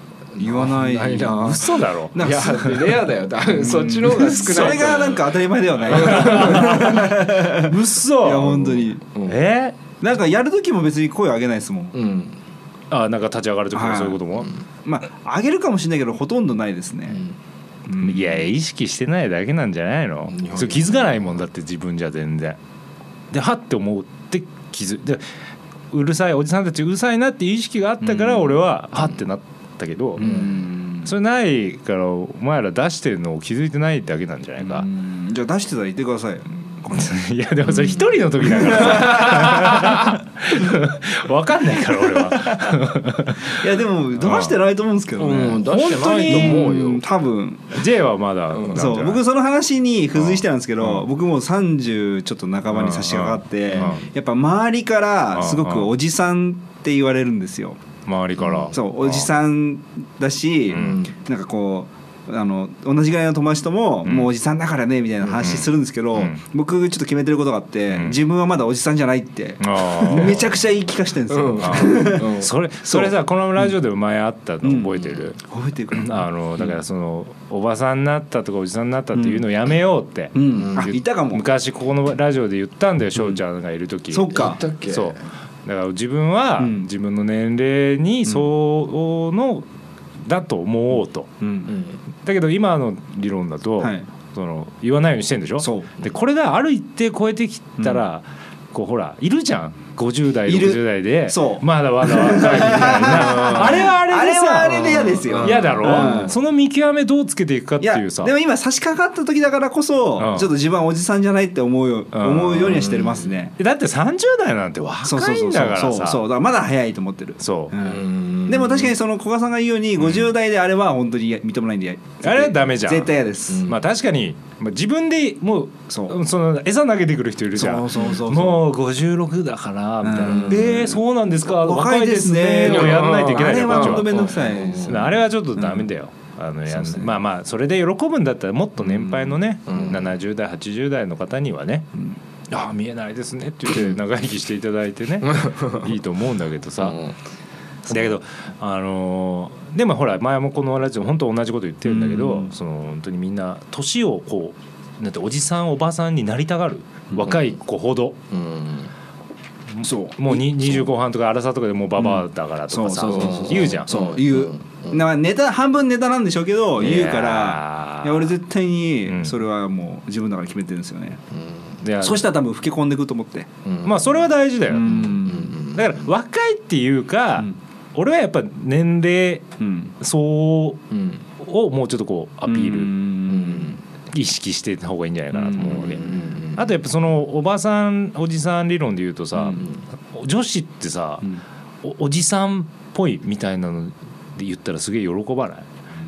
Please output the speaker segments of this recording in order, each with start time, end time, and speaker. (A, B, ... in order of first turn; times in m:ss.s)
0:00.3-0:07.1 A
0:00.4-0:01.6 B
0:01.3-0:02.2 C
0:02.1-0:09.1 B
0:04.5-0:04.8 C
0:05.9-0:09.8 C
0:10.0-0:12.0 B
0:11.9-0:12.4 A
0:12.9-0:14.5 C
0:13.7-0:14.2 B
0:14.8-0:17.2 B
0:17.9-0:18.5 B
0:18.0-0:22.6 C
0:20.3-0:21.4 A
0:23.3-0:25.2 C
0:25.9-0:30.3 C
0:28.0-0:28.5 B
0:30.2-0:31.1 B
0:30.2-0:30.6 A
0:31.0-0:34.8 C
0:34.6-0:37.2 B
0:36.9-0:43.6 C
0:37.8-0:39.9 B
0:42.3-0:42.7 B
0:43.4-0:45.7 B
0:44.1-0:44.6 C
0:45.2-0:47.0 A
0:45.7-0:46.7 C
0:46.2-0:47.8 B
0:47.7-0:49.2 C
0:48.5-0:48.8 A
0:48.7-0:57.8 B
0:50.1-0:51.0 C
0:52.7-0:54.0 C
0:53.7-0:54.0 A
0:55.3-0:55.9 C
0:58.0-0:59.3 C
0:58.4-0:58.7 A
0:58.7-1:13.7 B
1:00.7-1:01.0 C
1:00.7-1:01.1 A
1:04.0-1:04.3 C
1:05.2-1:05.6 A
1:05.4-1:06.4 C
1:07.9-1:08.2 C
1:09.6-1:10.5 C
1:11.3-1:12.5 A
1:11.6-1:15.4 C
1:14.6-1:16.7 B
1:15.9-1:29.6 C
1:19.1-1:19.4 B
1:20.3-1:21.4 B
1:20.5-1:20.9 A
1:24.1-1:24.6 B
1:24.3-1:25.1 A
1:26.6-1:26.9 B
1:30.2-1:31.3 C
1:31.4-1:31.7 B
1:31.7-1:32.0 A
1:32.2-1:48.3 C
1:33.8-1:34.0 B
1:35.6-1:35.9 B
1:40.5-1:46.4 B
1:45.2-1:46.3 A
1:47.8-1:53.6 B
1:50.2-1:50.5 C
1:52.1-1:52.8 C
1:52.6-1:53.4 A
1:53.6-1:56.2 C
1:55.0-2:03.7 B
1:57.4-1:57.7 C
1:57.8-1:58.9 A
2:00.0-2:00.2 C
2:02.2-2:14.3 C
2:03.5-2:03.8 A
2:05.9-2:06.2 B
2:07.5-2:08.6 B
2:10.0-2:15.9 B
2:10.2-2:10.7 A
2:12.6-2:15.0 A
2:14.8-2:21.8 C
2:16.7-2:17.1 B
2:18.8-2:19.3 B
2:19.7-2:20.1 A
2:22.5-2:27.0 C
2:25.5-2:25.7 A
2:26.8-2:27.1 A
2:27.9-2:38.2 C
2:31.9-2:32.5 B
2:38.3-2:38.9 A
2:39.8-2:43.9 C
2:39.8-2:40.8 B
2:42.0-2:51.2 B
2:43.1-2:45.0 A
2:46.8-2:48.3 C
2:49.1-2:49.4 C
2:51.3-2:51.8 A
2:51.8-2:52.2 C
2:52.0-2:53.5 B
2:53.6-2:54.1 A
2:53.8-2:59.4 C
2:54.7-2:55.6 B
2:54.9-2:56.0 A
2:59.6-2:59.9 B
3:00.0-3:00.8 C
3:00.9-3:01.2 A
3:01.4-3:03.0 C
3:02.5-3:03.8 B
3:03.3-3:03.8 A
3:04.1-3:11.3 C
3:05.3-3:06.4 B
3:05.9-3:06.6 A
3:11.8-3:15.7 C